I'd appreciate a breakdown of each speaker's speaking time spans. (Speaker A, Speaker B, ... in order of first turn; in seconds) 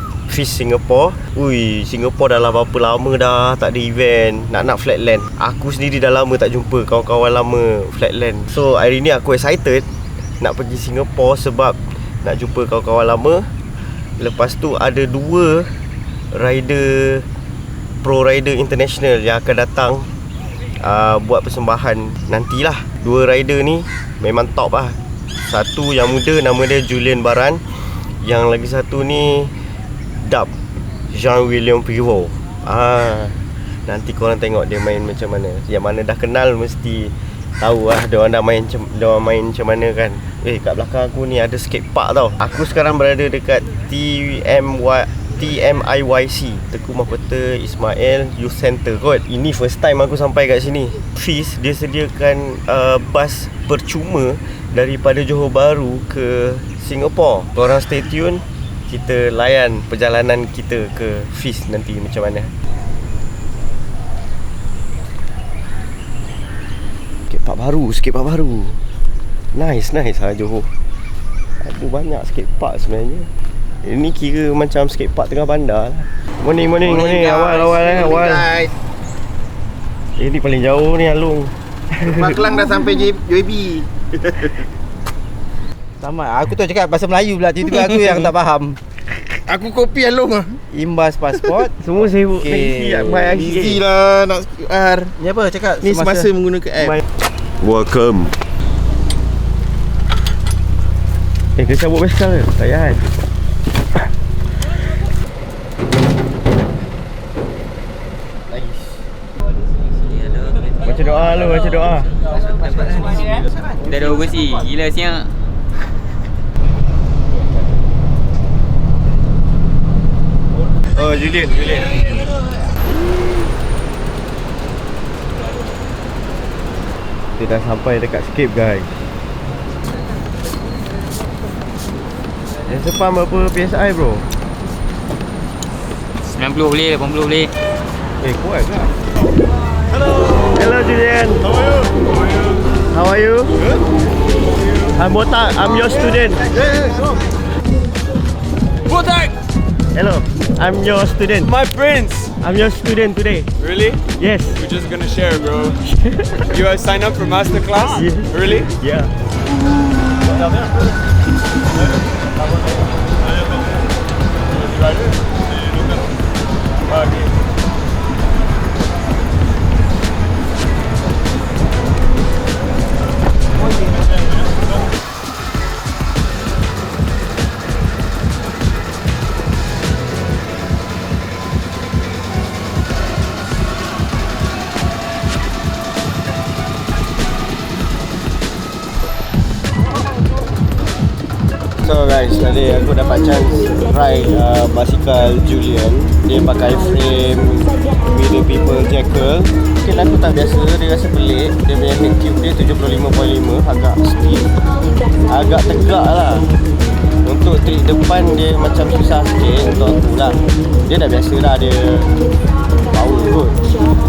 Speaker A: 0.3-9.9, 10.4-13.5, 14.2-15.8, 16.3-17.3, 18.0-20.1, 20.8-29.6, 30.2-30.5, 31.1-62.5, 67.3-68.8, 69.5-70.7, 71.6-73.3, 73.8-78.5, 80.2-82.9, 91.7-93.8, 97.6-98.3, 101.6-103.1, 108.5-109.0, 110.8-112.1, 121.0-121.9, 127.4-129.1, 132.7-134.3, 138.2-138.9, 140.5-141.5, 142.9-143.6, 145.0-146.5, 149.9-151.5, 152.4-153.5, 154.2-154.6, 155.9-156.5, 157.9-159.1, 191.8-204.5, 205.3-206.5, 207.2-212.1, 212.9-213.6
Speaker B: 76.8-78.7, 82.0-84.6, 89.5-90.6, 93.8-95.1, 95.9-96.9
Speaker C: 86.0-88.8, 90.7-93.8, 95.2-96.6
Speaker D: 112.6-113.1, 113.8-115.3, 136.3-137.5
Speaker E: 148.9-149.3, 151.4-152.3, 153.6-154.0, 154.6-155.8, 156.5-158.7